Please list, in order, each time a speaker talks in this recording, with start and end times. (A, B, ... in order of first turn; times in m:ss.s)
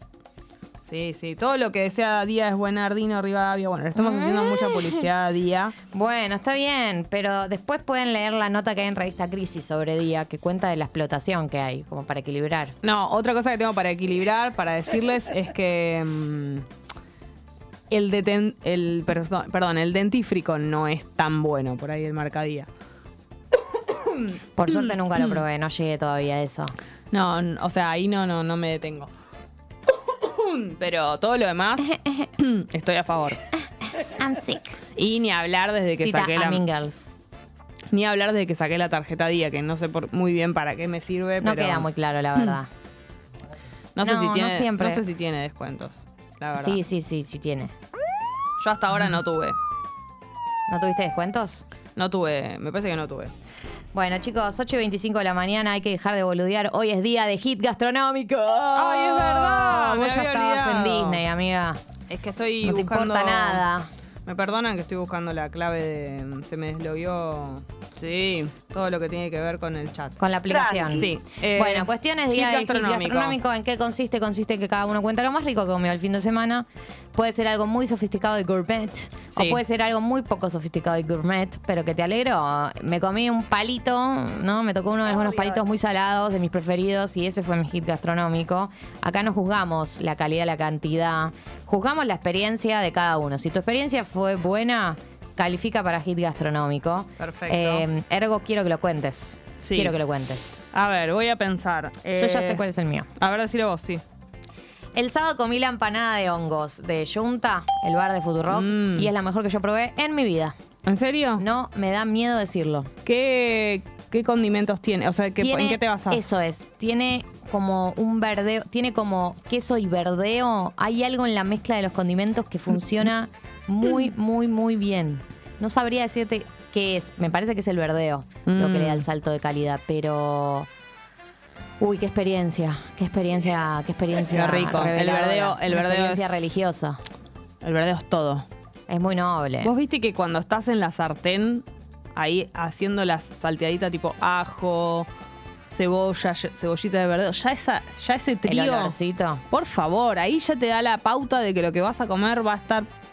0:00.9-0:05.8 A
0:04.0-0:05.1 B
0:05.9-0:12.8 B
0:12.8-0:16.7 A
0:17.9-0:22.7 A
0:23.9-0:25.3 A
0:24.6-0:26.8 B
0:27.1-0:29.1 A
0:29.9-0:33.4 A
0:31.8-0:32.3 B
0:34.0-0:34.8 B
0:35.0-0:36.6 A
0:36.0-0:37.2 B
0:37.9-0:42.5 A
0:41.4-0:42.7 B
0:44.0-0:46.8 A
0:44.0-0:45.0 B
0:46.6-0:47.7 B
0:48.6-0:49.6 A
0:50.7-0:51.6 B
0:52.0-0:53.3 A
0:53.9-1:01.8 B
0:58.7-1:01.2 A
1:02.1-1:03.6 A
1:02.6-1:03.9 B
1:04.3-1:13.4 A
1:10.2-1:40.7 B
1:19.3-1:19.6 A
1:37.2-1:37.9 A
1:39.6-1:40.0 A
1:40.7-1:42.6 A
1:42.2-1:43.1 B
1:43.2-1:44.0 A
1:45.0-1:50.6 B
1:48.5-1:49.1 A
1:50.9-1:51.4 A
1:51.4-1:52.9 B
1:53.0-1:56.4 A
1:55.4-2:10.7 B
2:08.5-2:09.1 A
2:11.8-2:17.0 B
2:14.3-2:16.6 A
2:17.6-2:18.5 A
2:18.9-2:19.7 B
2:19.6-2:25.1 A
2:25.7-2:29.0 A
2:28.5-2:29.4 B
2:29.5-2:32.9 A